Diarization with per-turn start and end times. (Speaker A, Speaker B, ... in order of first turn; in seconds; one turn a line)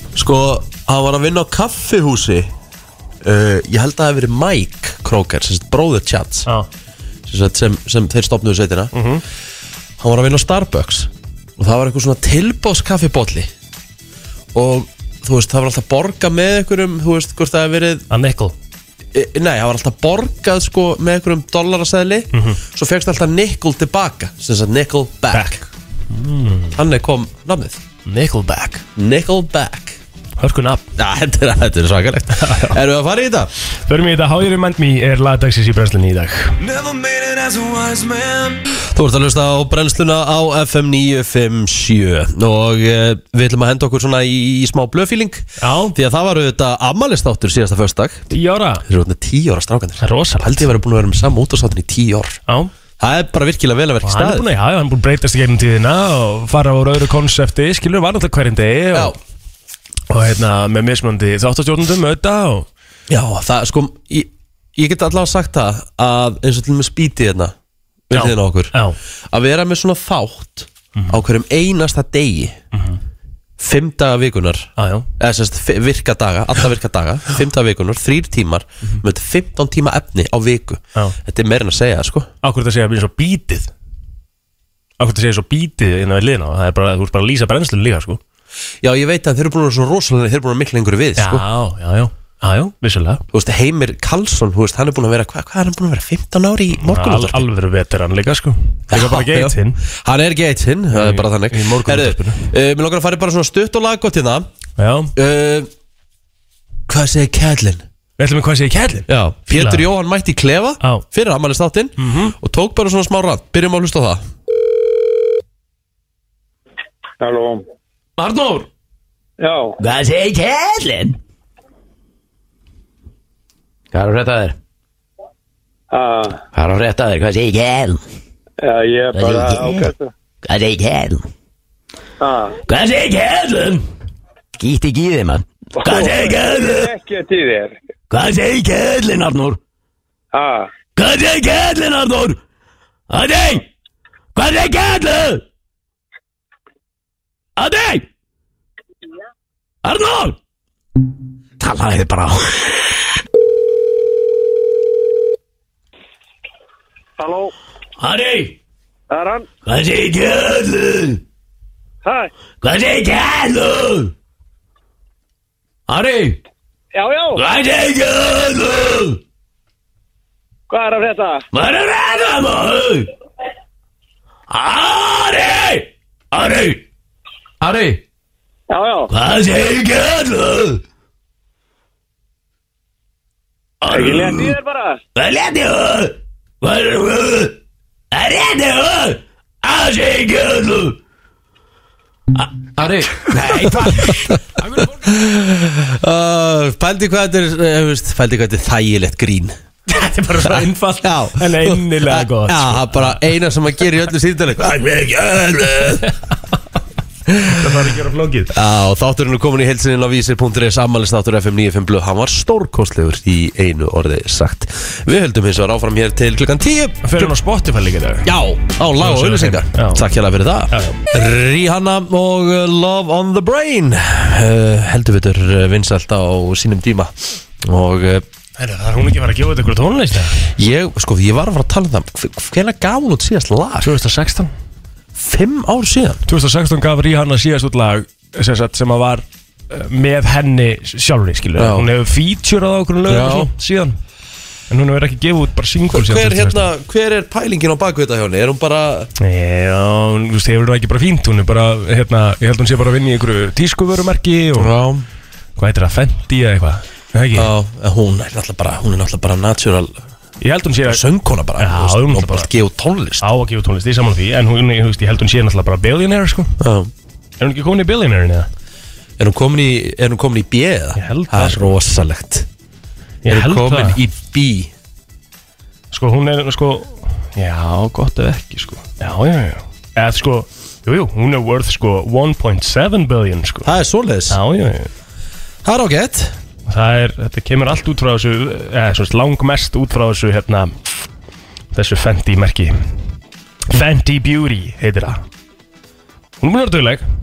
Speaker A: 0.1-2.5
Speaker A: 3.2-6.5
Speaker A: 7.3-8.9
Speaker B: 8.9-9.2
Speaker A: 10.0-13.5
Speaker A: 14.5-18.1
Speaker B: 18.1-18.6
Speaker A: 19.1-25.6
Speaker B: 22.3-22.6
Speaker B: 25.3-26.8
Speaker A: 26.7-27.8
Speaker B: 28.1-28.8
Speaker A: 29.0-30.0
Speaker B: 30.4-30.9
Speaker A: 31.0-33.5
Speaker B: 32.4-32.8
Speaker B: 33.9-36.6
Speaker C: 36.6-38.6
Speaker A: 38.8-48.3
Speaker B: 45.6-46.0
Speaker B: 48.3-48.8
Speaker A: 48.8-52.4
Speaker B: 50.0-50.7
Speaker A: 53.0-54.5
Speaker B: 54.0-59.1
Speaker B: 60.1-62.7
Speaker A: 63.1-67.5
Speaker A: 68.1-68.7
Speaker B: 68.1-69.0
Speaker A: 69.3-72.6
Speaker B: 71.0-71.2
Speaker B: 72.7-73.0
Speaker A: 73.6-82.3
Speaker B: 74.8-75.1
Speaker B: 82.4-83.7
Speaker B: 85.0-88.2
Speaker A: 88.8-91.5
Speaker B: 91.2-93.2
Speaker A: 93.3-97.5
Speaker B: 96.8-99.8
Speaker A: 98.9-104.5
Speaker B: 100.9-102.5
Speaker B: 104.8-105.1
Speaker A: 105.2-105.7
Speaker A: 106.9-107.8
Speaker B: 108.2-109.9
Speaker A: 109.1-114.2
Speaker B: 112.0-112.3
Speaker D: 117.2-117.7
Speaker E: 118.2-118.7
Speaker D: 119.4-119.8
Speaker E: 119.8-121.2
Speaker E: 123.9-124.6
Speaker D: 125.9-126.4
Speaker E: 126.5-128.0
Speaker D: 128.6-130.1
Speaker E: 129.1-129.9
Speaker E: 130.4-131.3
Speaker D: 132.2-132.6
Speaker E: 132.7-133.8
Speaker E: 134.6-136.9
Speaker D: 135.8-137.8
Speaker E: 138.1-139.6
Speaker D: 140.3-140.7
Speaker E: 141.0-142.4
Speaker E: 143.1-143.7
Speaker E: 144.3-145.4
Speaker E: 147.6-148.1
Speaker E: 149.8-150.4
Speaker E: 151.6-152.9
Speaker D: 157.2-157.5
Speaker E: 158.0-158.6
Speaker D: 159.1-159.5
Speaker E: 159.7-161.2
Speaker D: 162.0-162.3
Speaker E: 162.6-164.1
Speaker E: 165.9-166.4
Speaker D: 166.9-167.4
Speaker E: 167.4-169.2
Speaker D: 170.7-171.4
Speaker E: 171.5-173.1
Speaker E: 174.5-176.8
Speaker E: 177.6-178.0
Speaker D: 178.7-179.1
Speaker E: 179.1-180.8
Speaker E: 183.8-184.6
Speaker D: 183.9-185.0
Speaker E: 185.2-187.6
Speaker E: 188.1-191.0
Speaker E: 192.3-194.4
Speaker B: 194.6-194.9
Speaker A: 195.0-199.6
Speaker B: 199.9-203.2
Speaker A: 200.4-206.1
Speaker A: 207.3-207.9
Speaker B: 207.5-208.6
Speaker A: 208.5-217.3
Speaker B: 217.0-218.3
Speaker A: 218.2-228.2
Speaker B: 219.0-220.0
Speaker B: 220.7-221.0
Speaker B: 228.6-230.4
Speaker A: 230.6-233.9
Speaker B: 233.8-234.5
Speaker A: 235.2-236.2
Speaker B: 236.3-244.0
Speaker A: 241.6-241.9
Speaker A: 243.1-243.5
Speaker B: 244.7-246.7
Speaker A: 245.9-249.1
Speaker B: 249.2-254.7
Speaker A: 254.6-255.1
Speaker B: 255.6-257.5
Speaker A: 257.4-260.0
Speaker B: 260.4-261.0
Speaker A: 260.9-263.3
Speaker B: 261.6-262.5
Speaker B: 263.2-266.6
Speaker A: 266.6-266.9
Speaker B: 267.4-268.5
Speaker A: 269.2-272.5
Speaker B: 271.0-271.7
Speaker B: 273.2-274.0
Speaker A: 273.3-274.7
Speaker B: 275.9-283.7
Speaker A: 283.6-284.4
Speaker B: 284.3-284.9
Speaker A: 285.6-286.4
Speaker B: 286.7-290.8
Speaker B: 291.7-292.7
Speaker B: 293.7-295.2
Speaker B: 296.4-297.0